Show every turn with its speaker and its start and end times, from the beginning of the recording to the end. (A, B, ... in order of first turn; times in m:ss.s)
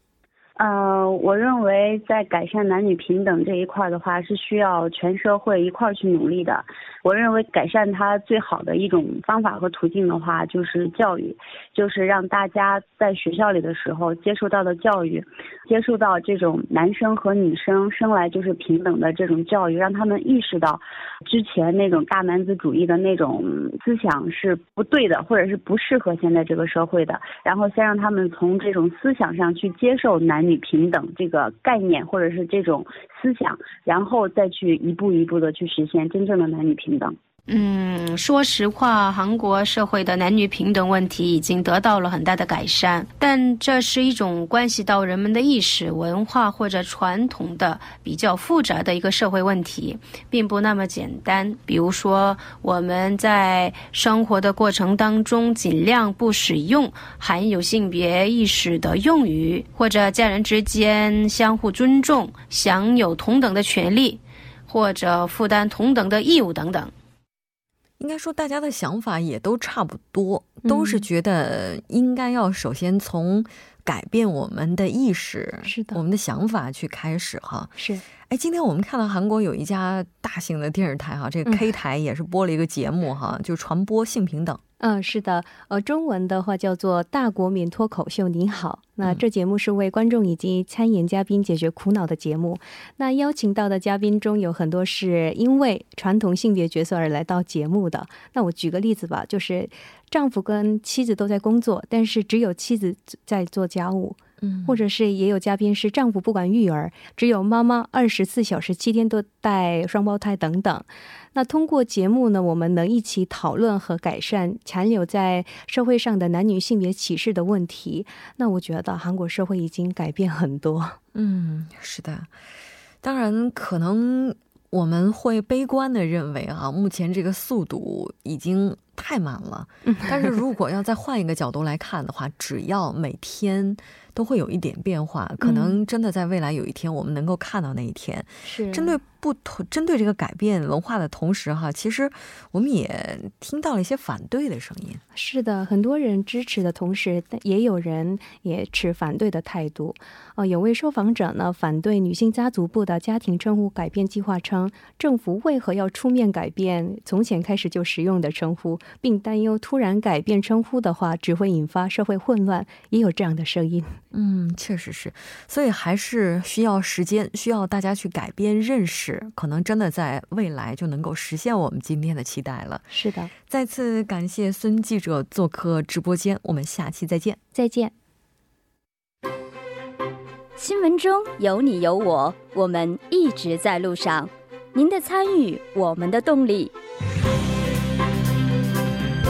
0:00.6-0:37.2 A
0:37.5-1:06.9 B
1:08.0-1:24.6 C
1:10.6-1:11.1 D
1:15.6-1:16.0 D
1:17.8-1:18.0 D
1:24.8-2:01.0 D
1:44.4-1:44.8 C
2:01.1-2:02.3 C
2:03.0-2:25.0 C
2:09.9-2:10.4 D
2:15.4-2:15.8 D
2:18.4-2:19.0 D
2:25.1-2:44.0 D
2:44.1-2:52.9 C
2:52.9-2:53.3 D
2:53.5-2:57.4 C
2:57.5-2:57.9 D
3:00.6-3:06.7 E